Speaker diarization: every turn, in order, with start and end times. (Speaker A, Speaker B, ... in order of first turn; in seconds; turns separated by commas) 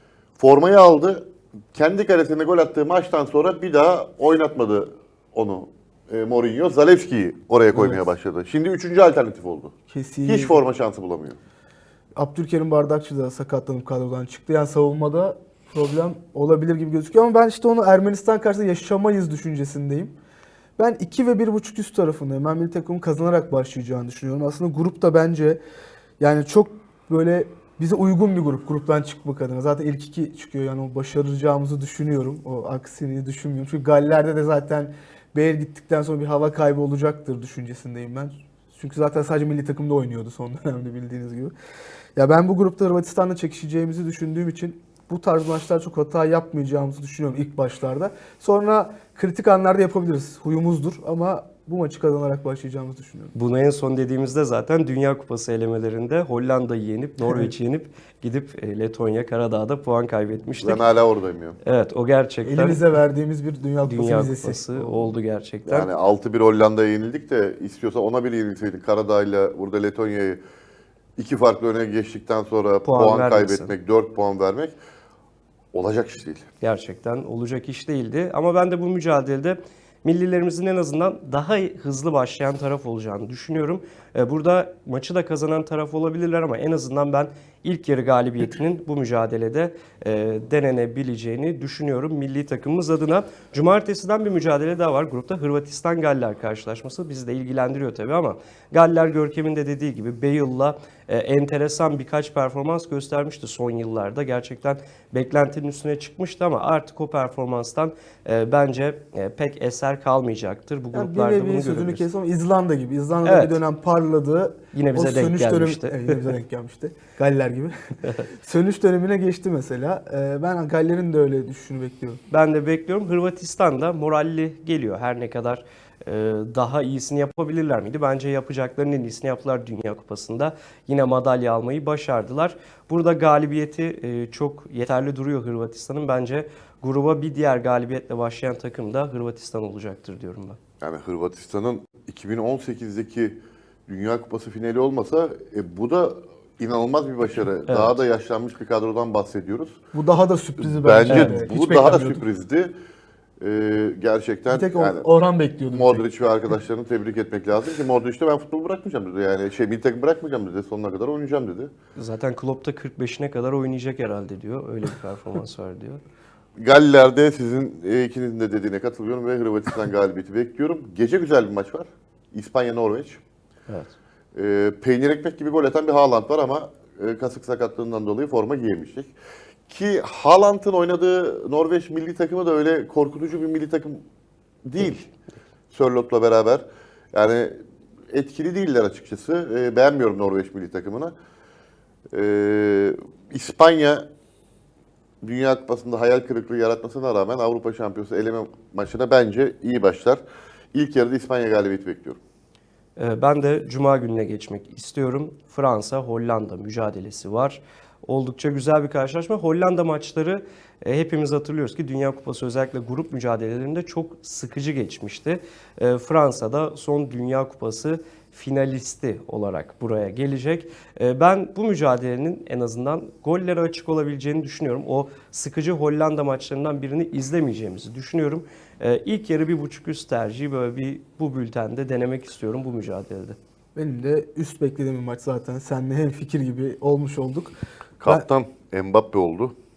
Speaker A: 0.4-9.7, Speaker B: 7.7-8.1, Speaker B: 9.9-10.6, Speaker A: 10.2-11.4, Speaker B: 12.2-20.1, Speaker B: 20.8-25.6, Speaker B: 26.2-41.5, Speaker B: 42.2-53.3, Speaker C: 53.3-60.8, Speaker B: 57.2-57.5, Speaker A: 60.6-61.6, Speaker C: 61.6-62.8, Speaker B: 62.4-65.2, Speaker C: 63.8-65.9, Speaker A: 65.7-70.4, Speaker A: 71.2-74.8, Speaker C: 72.8-73.8, Speaker A: 75.7-76.4, Speaker C: 76.6-112.1, Speaker B: 110.9-117.7, Speaker C: 113.2-113.6, Speaker C: 114.7-116.3, Speaker B: 118.4-122.2, Speaker C: 122.3-140.6, Speaker A: 140.8-149.8, Speaker C: 147.7-148.0, Speaker B: 149.9-152.2, Speaker A: 150.6-152.8, Speaker C: 151.1-151.4, Speaker A: 153.4-155.1, Speaker B: 154.5-156.1, Speaker A: 155.7-161.7, Speaker C: 162.0-166.0, Speaker A: 166.6-173.2, Speaker C: 173.7-173.9, Speaker A: 174.3-179.1, Speaker A: 179.7-184.0, Speaker A: 184.7-185.0, Speaker A: 185.7-191.2, Speaker A: 192.1-194.1, Speaker A: 195.2-200.2, Speaker A: 200.7-202.2, Speaker C: 203.0-233.4, Speaker B: 233.8-238.3, Speaker A: 238.0-239.6